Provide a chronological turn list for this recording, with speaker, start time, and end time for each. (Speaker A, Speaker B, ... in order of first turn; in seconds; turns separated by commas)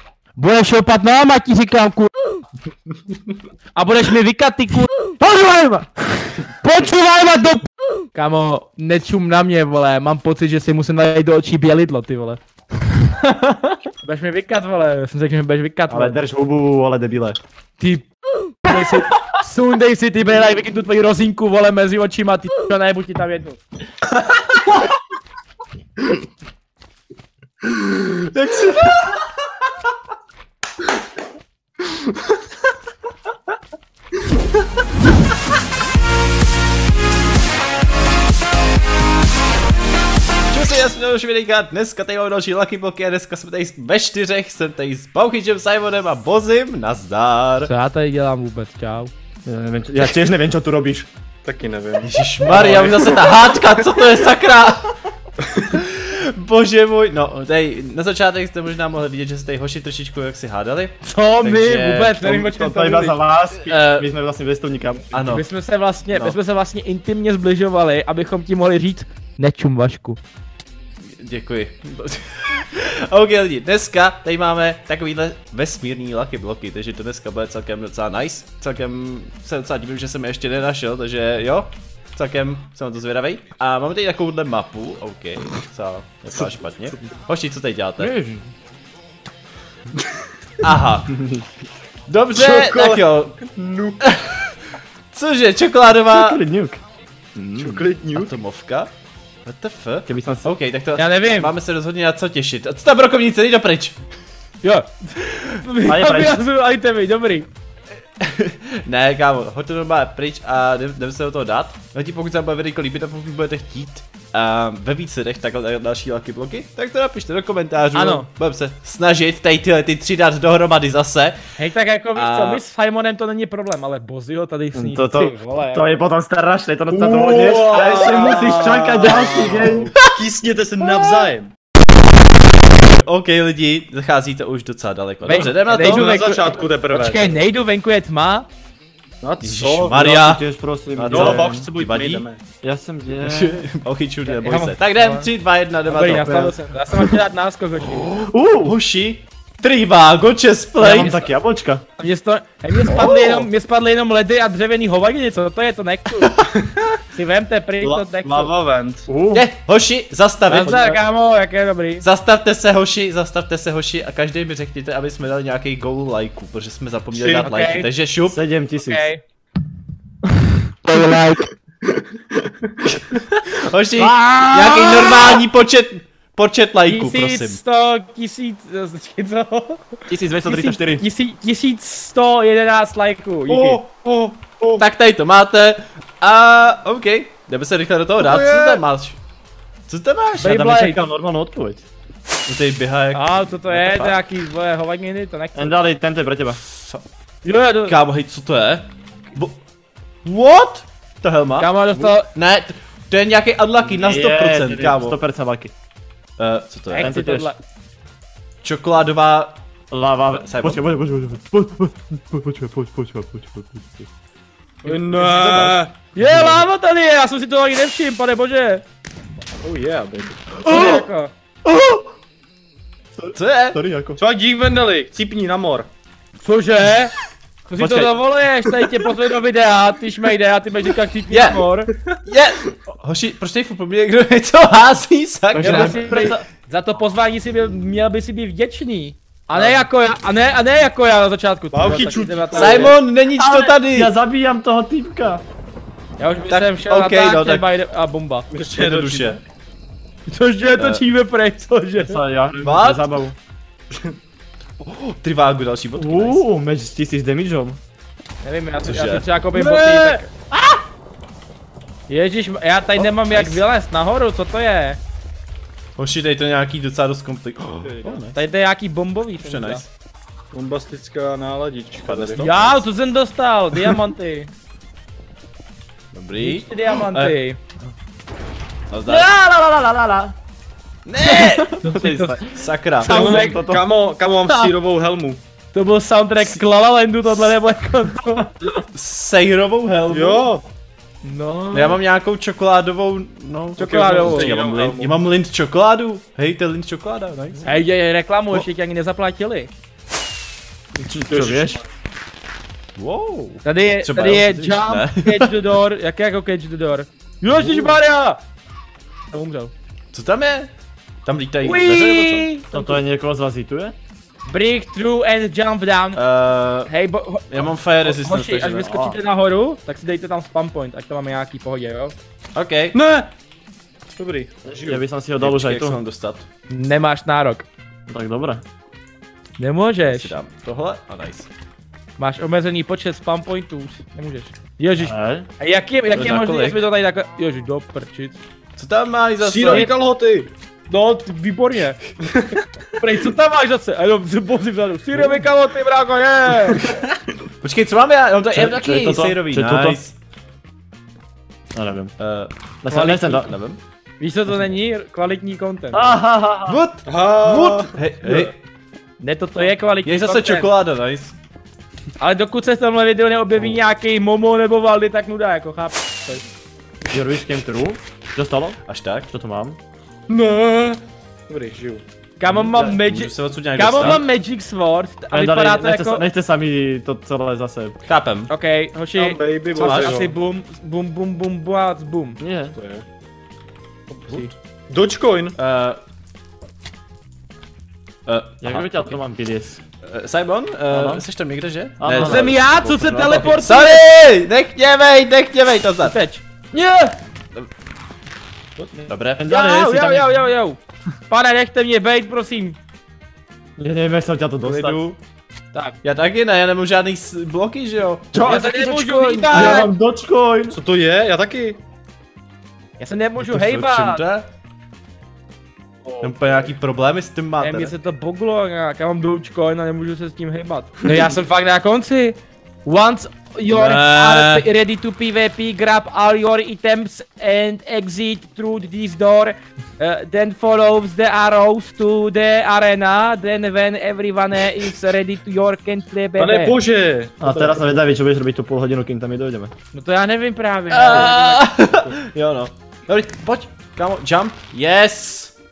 Speaker A: 0.4-2.1, Speaker A: 3.8-7.6, Speaker A: 8.1-12.4, Speaker A: 13.2-16.1, Speaker B: 15.9-17.4, Speaker A: 17.8-18.1, Speaker A: 18.6-23.6, Speaker C: 28.4-29.0, Speaker C: 40.5-47.7, Speaker A: 47.6-49.1, Speaker B: 49.5-51.1, Speaker D: 51.5-53.2, Speaker C: 52.0-55.1, Speaker C: 55.7-62.2, Speaker A: 61.0-63.2, Speaker B: 62.2-65.1, Speaker C: 63.6-64.1, Speaker C: 65.1-65.5, Speaker A: 65.3-70.2, Speaker C: 66.1-66.4, Speaker C: 71.0-88.1, Speaker B: 88.0-88.5, Speaker C: 90.6-91.2, Speaker C: 92.1-93.4, Speaker D: 92.3-94.1, Speaker C: 94.0-94.6, Speaker C: 95.1-96.4, Speaker B: 96.1-96.8, Speaker B: 97.4-97.8, Speaker D: 97.6-98.3, Speaker C: 98.2-98.9, Speaker C: 99.5-104.0, Speaker B: 100.1-100.5, Speaker A: 101.0-101.5, Speaker A: 104.6-104.9, Speaker C: 105.3-105.6, Speaker A: 105.6-107.5, Speaker B: 105.9-106.4, Speaker C: 108.2-121.4, Speaker A: 117.9-118.3, Speaker A: 121.6-125.8, Speaker C: 122.1-122.6, Speaker B: 124.7-129.9, Speaker D: 126.9-131.5, Speaker C: 127.8-129.8, Speaker C: 130.9-131.3, Speaker C: 132.8-136.2, Speaker A: 135.2-138.5, Speaker D: 135.8-137.4, Speaker D: 139.2-140.0, Speaker C: 139.4-140.4, Speaker B: 139.9-141.7, Speaker C: 141.0-142.2, Speaker D: 141.1-142.4, Speaker B: 142.6-143.7, Speaker C: 143.2-146.6, Speaker A: 144.3-145.3, Speaker A: 145.9-148.1, Speaker C: 148.0-151.1, Speaker B: 148.2-148.8, Speaker A: 150.8-151.3, Speaker B: 150.9-151.8, Speaker A: 152.0-156.3, Speaker B: 152.9-153.4, Speaker D: 156.5-156.8, Speaker A: 157.1-158.5, Speaker D: 157.8-159.1, Speaker B: 159.1-159.5, Speaker C: 159.3-161.0, Speaker A: 160.5-162.1, Speaker B: 160.5-161.0, Speaker C: 162.0-168.4, Speaker D: 167.1-167.5, Speaker A: 167.4-167.9, Speaker B: 168.3-169.1, Speaker A: 168.8-169.2, Speaker B: 170.8-171.4, Speaker A: 170.9-171.2, Speaker C: 173.3-177.6, Speaker B: 174.0-175.4, Speaker A: 176.9-183.8, Speaker B: 180.1-181.1, Speaker D: 183.5-184.9, Speaker C: 184.8-189.2, Speaker D: 188.2-188.8, Speaker C: 189.9-190.5, Speaker B: 190.4-191.9, Speaker A: 190.4-191.0, Speaker C: 192.5-194.2, Speaker A: 193.1-195.8, Speaker B: 195.6-196.6, Speaker C: 196.7-197.0, Speaker A: 197.4-198.0, Speaker C: 197.8-199.6, Speaker C: 200.2-205.2, Speaker A: 201.6-202.3, Speaker B: 203.9-205.7, Speaker C: 206.4-207.1, Speaker A: 206.9-207.6, Speaker B: 207.0-207.5, Speaker C: 208.6-209.6, Speaker B: 209.9-214.1, Speaker C: 210.3-210.8, Speaker D: 214.8-215.9, Speaker C: 214.8-215.8, Speaker A: 216.2-218.8, Speaker B: 216.2-216.7, Speaker D: 219.6-220.6, Speaker B: 220.7-221.1, Speaker A: 220.7-221.3, Speaker B: 221.7-222.1, Speaker B: 223.2-224.2, Speaker C: 223.3-223.8, Speaker D: 224.2-225.9, Speaker A: 226.4-227.1, Speaker A: 227.7-231.9, Speaker B: 227.8-228.2, Speaker C: 231.3-231.7, Speaker C: 232.3-236.3, Speaker B: 235.5-236.4, Speaker A: 235.6-242.9, Speaker D: 239.5-239.8, Speaker D: 241.7-243.0, Speaker C: 242.5-244.1, Speaker B: 243.4-245.4, Speaker A: 246.2-248.5, Speaker C: 246.5-247.7, Speaker D: 248.5-249.4, Speaker C: 248.7-249.4, Speaker A: 250.3-252.2, Speaker C: 250.8-251.0, Speaker B: 252.0-253.4, Speaker C: 252.6-253.1, Speaker C: 254.8-256.4, Speaker B: 256.0-257.8, Speaker A: 258.4-260.3, Speaker C: 258.8-260.8, Speaker A: 262.1-265.0, Speaker C: 263.0-263.6, Speaker C: 266.0-268.4, Speaker D: 267.8-268.2, Speaker A: 268.3-269.8, Speaker C: 269.4-269.9, Speaker D: 270.5-272.7, Speaker C: 272.1-272.7, Speaker A: 272.4-274.5, Speaker C: 276.1-277.4, Speaker A: 276.4-277.6, Speaker C: 278.9-279.3, Speaker B: 279.1-280.3, Speaker C: 281.1-281.8, Speaker B: 281.3-282.6, Speaker A: 281.8-282.4, Speaker C: 282.6-283.2, Speaker A: 283.0-283.6, Speaker D: 283.0-285.4, Speaker B: 283.1-283.8, Speaker A: 285.7-288.5, Speaker C: 288.9-290.5, Speaker D: 290.1-290.7, Speaker A: 291.2-292.0, Speaker C: 291.7-297.8, Speaker A: 293.8-294.5, Speaker D: 293.8-295.1, Speaker A: 297.6-299.7, Speaker B: 301.0-301.8, Speaker D: 301.3-301.9, Speaker C: 303.0-305.5, Speaker A: 303.6-308.4, Speaker C: 307.5-307.9, Speaker A: 309.3-309.7, Speaker C: 310.1-310.7, Speaker C: 311.2-312.5, Speaker A: 311.6-313.0, Speaker B: 312.7-313.9, Speaker A: 314.5-316.2, Speaker C: 316.1-316.9, Speaker A: 316.9-322.1, Speaker C: 317.5-319.2, Speaker C: 322.6-323.0, Speaker D: 322.9-323.3, Speaker D: 324.1-325.0, Speaker B: 324.6-326.0, Speaker C: 325.4-326.5, Speaker A: 326.7-327.7, Speaker B: 328.1-328.6, Speaker A: 329.6-330.4, Speaker C: 330.1-331.5, Speaker A: 332.2-338.4, Speaker B: 335.0-335.5, Speaker C: 336.1-336.9, Speaker C: 338.8-339.9, Speaker D: 339.4-340.5, Speaker A: 340.9-342.0, Speaker D: 342.2-342.6, Speaker A: 343.0-346.9, Speaker C: 347.6-350.2, Speaker B: 348.5-350.0, Speaker B: 351.7-352.1, Speaker C: 352.2-353.8, Speaker B: 352.8-353.5, Speaker A: 354.2-356.2, Speaker B: 355.9-356.8, Speaker C: 356.7-358.6, Speaker D: 357.1-358.5, Speaker A: 359.2-360.7, Speaker C: 360.0-361.4, Speaker A: 362.2-366.4, Speaker B: 367.1-369.8, Speaker C: 368.9-369.3, Speaker D: 370.3-372.0, Speaker A: 372.4-376.3, Speaker B: 372.6-373.0, Speaker C: 373.1-374.2, Speaker B: 375.3-378.0, Speaker C: 378.1-378.5, Speaker A: 378.5-382.4, Speaker D: 379.1-380.3, Speaker C: 379.8-380.2, Speaker B: 382.4-382.8, Speaker D: 382.8-383.1, Speaker D: 384.9-385.6, Speaker C: 385.6-386.0, Speaker C: 388.3-389.2, Speaker B: 388.6-389.8, Speaker C: 390.0-396.2, Speaker B: 390.9-391.2, Speaker B: 392.0-392.6, Speaker A: 392.2-394.0, Speaker A: 396.0-397.2, Speaker D: 398.8-399.0, Speaker C: 399.1-399.5, Speaker B: 399.4-400.4, Speaker A: 399.5-402.8, Speaker B: 403.8-405.0, Speaker C: 404.6-405.2, Speaker C: 406.0-409.9, Speaker A: 408.4-409.9, Speaker B: 409.5-410.8, Speaker D: 410.7-411.8, Speaker A: 413.0-414.2, Speaker C: 413.4-414.5, Speaker D: 416.1-416.5, Speaker C: 416.2-417.9, Speaker A: 417.6-436.8, Speaker C: 423.7-424.7, Speaker D: 436.4-437.9, Speaker B: 437.4-439.7, Speaker A: 439.9-441.6, Speaker C: 440.9-445.6